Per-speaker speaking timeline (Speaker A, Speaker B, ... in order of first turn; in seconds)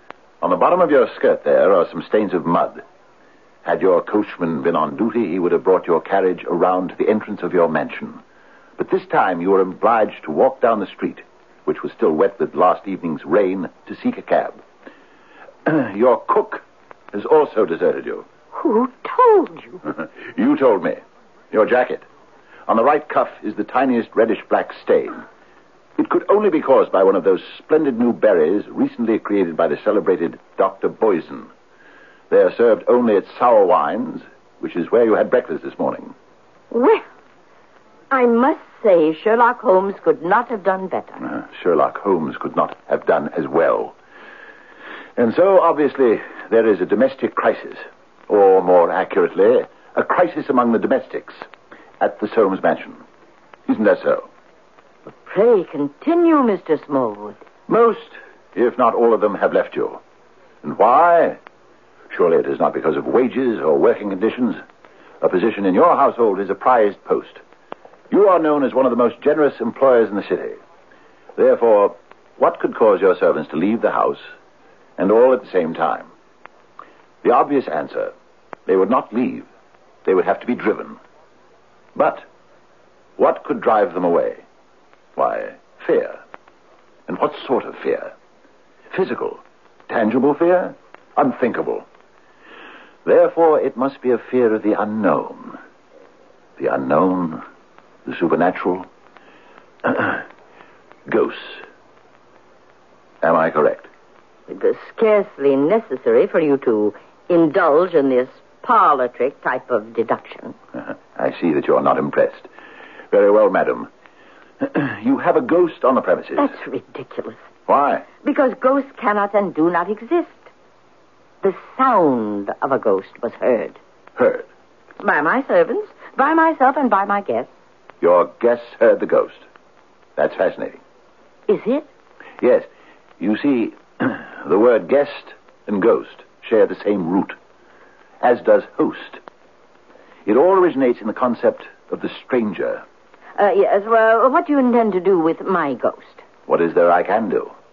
Speaker A: 0.4-2.8, 3.6-8.2, 8.8-14.6, 15.7-18.2, 19.9-21.0, 21.5-22.0, 22.7-25.2, 26.0-31.5, 32.3-36.1, 41.2-43.9, 45.2-51.4, 52.0-53.0, 53.7-54.3, 57.7-60.0, 60.6-61.4, 62.1-64.6, 65.2-67.4, 68.1-70.6, 71.3-74.2, 75.0-76.1, 77.2-78.1, 78.7-79.5, 80.0-81.0, 81.9-82.2, 83.2-84.4, 85.2-86.2, 87.1-88.1, 88.9-91.8, 93.0-95.6, 96.6-97.4, 98.0-98.9, 99.8-100.2, 101.1-101.6, 103.2-103.9, 110.8-112.5, 113.1-113.9, 114.6-116.5, 117.7-118.0, 124.2-124.5, 128.0-129.4, 130.2-130.8, 132.4-132.7, 133.2-137.3, 138.2-139.2, 140.2-142.8, 146.5-147.5
Speaker B: 18.5-19.8, 36.7-37.0, 38.1-41.2, 55.2-57.4, 104.5-110.5, 116.4-117.4, 118.2-120.5, 121.4-123.8, 125.0-127.5, 131.5-131.9, 143.4-146.2